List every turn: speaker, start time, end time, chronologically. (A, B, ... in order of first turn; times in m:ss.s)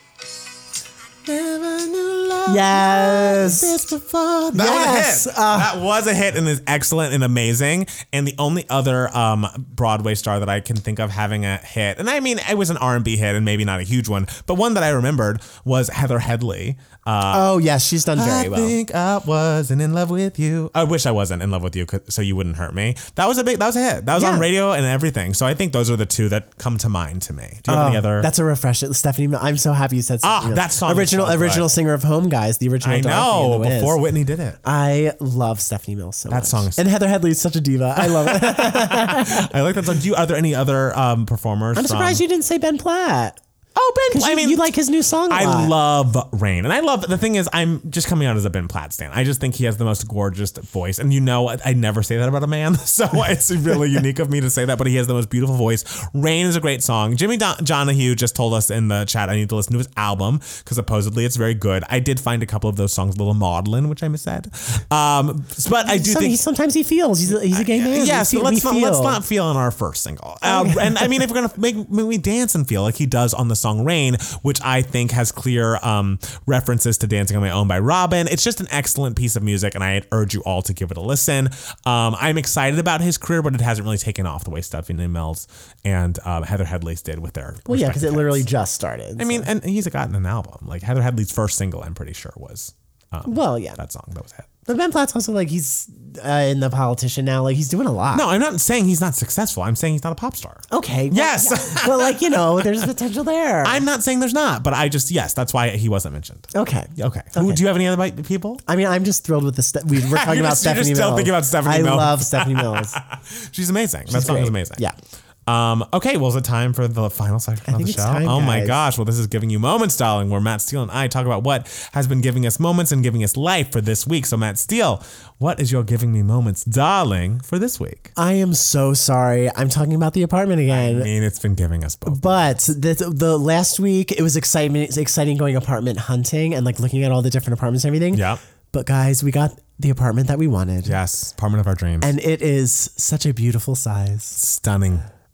0:01.2-0:17.5 A
0:02.5-0:03.8 B
0:04.5-0:05.7 B
0:17.3-0:18.8 B
0:18.1-0:28.3 A
0:24.1-0:24.5 B
0:27.7-0:34.0 B
0:30.2-0:31.6 A
0:32.8-0:34.6 A
0:34.6-0:39.5 B
0:36.3-0:36.8 A
0:38.0-0:42.2 A
0:41.7-0:43.4 B
0:43.8-0:44.7 A
0:44.1-0:45.7 B
0:45.3-1:06.4 A
1:05.8-1:09.2 B
1:07.4-1:28.5 A
1:10.4-1:11.1 B
1:27.7-1:29.5 B
1:29.2-1:34.6 A
1:33.2-1:33.8 B
1:34.6-1:38.2 B
1:38.1-1:42.9 A
1:40.7-1:43.8 B
1:43.6-1:48.6 A
1:46.5-1:47.6 B
1:48.6-1:53.0 B
1:49.9-1:54.8 A
1:54.1-1:54.9 B
1:55.5-2:08.1 A
1:57.6-1:58.8 B
2:08.2-2:11.1 B
2:10.7-2:12.6 A
2:12.0-2:21.0 B
2:18.1-2:18.4 A
2:20.8-2:22.1 A
2:22.0-2:24.4 B
2:24.4-2:25.0 A